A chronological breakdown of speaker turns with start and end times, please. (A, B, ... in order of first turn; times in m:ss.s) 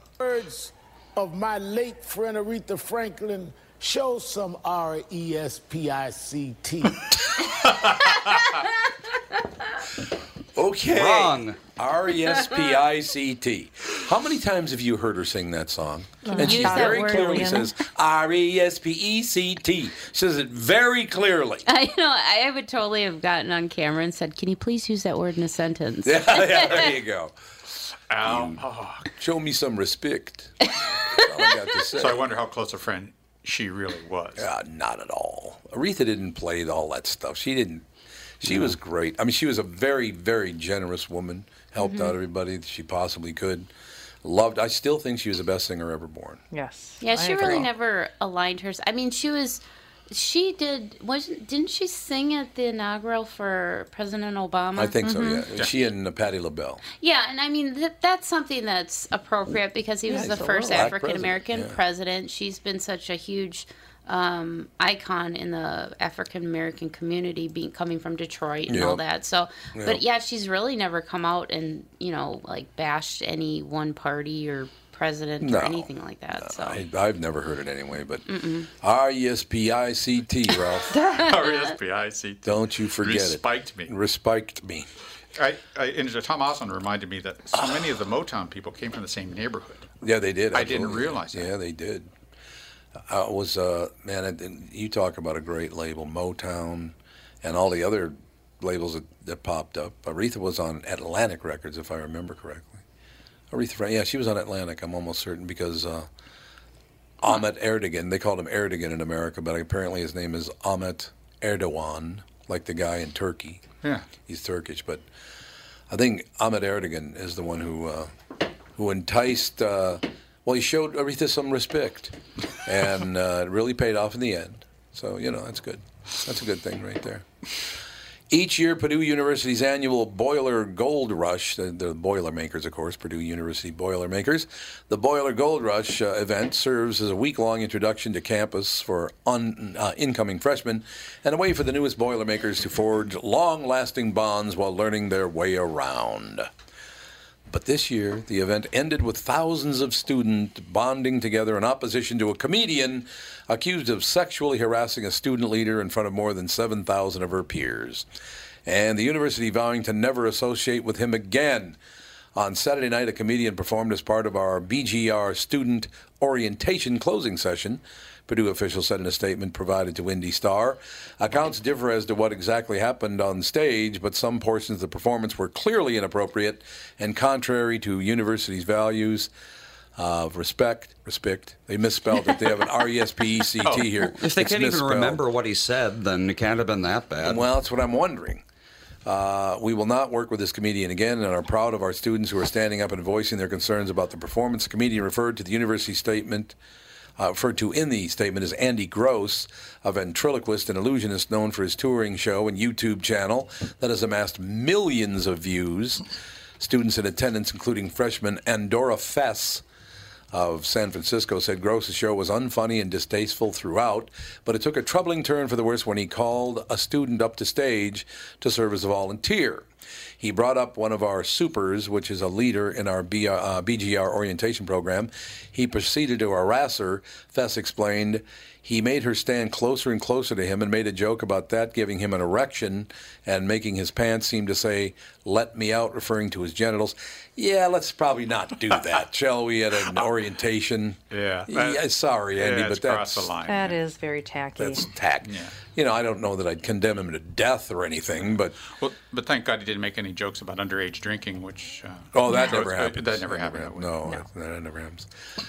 0:00.2-0:07.0 A
0:10.6-0:21.6 B
0:10.9-0:11.6 C
0:16.2-0:17.7 D
0:16.3-0:17.5 E
0:21.7-0:27.0 E
0:26.0-0:27.4 B
0:28.1-0:29.1 F
0:28.2-0:28.5 B
0:29.2-0:30.5 B
0:31.1-0:32.2 B
0:31.2-0:31.5 E
0:31.9-0:34.5 F
0:34.4-0:37.8 B
0:38.4-0:43.7 B
0:41.8-0:42.2 E
0:44.2-0:46.4 B
0:46.5-0:47.6 D
0:47.0-0:55.4 E
0:47.4-0:47.7 B
0:54.8-0:56.8 B
0:56.8-1:16.8 E
1:00.1-1:00.8 D
1:00.1-1:01.8 B
1:08.7-1:09.0 B
1:09.7-1:10.0 B
1:15.4-1:21.0 B
1:18.3-1:18.7 E
1:20.9-1:21.3 D
1:21.2-1:23.9 F
1:21.3-1:21.7 E
1:22.4-1:24.8 B
1:25.4-1:29.9 F
1:27.5-1:27.9 B
1:30.0-1:32.1 B
1:30.5-1:31.5 F
1:33.1-1:42.8 B
1:43.5-1:46.1 B
1:47.2-1:53.6 B
1:53.8-1:54.1 F
1:54.2-1:55.0 B
1:55.9-1:58.1 B
1:58.7-2:07.2 B
2:08.3-2:26.5 B
2:27.5-2:38.1 B
2:38.6-2:41.8 B
2:42.3-2:59.3 B
3:00.0-3:05.2 B
3:03.6-3:04.0 F
3:04.1-3:07.4 C
3:07.2-3:08.4 B
3:09.0-3:16.6 B
3:17.2-3:26.0 B
3:26.6-3:29.6 B
3:30.3-3:39.7 B
3:40.2-4:03.3 B
4:01.1-4:01.8 F
4:02.4-4:03.8 F
4:03.5-4:04.9 D
4:04.6-4:08.6 B
4:05.2-4:05.6 F
4:08.7-4:13.9 F
4:12.1-4:15.1 B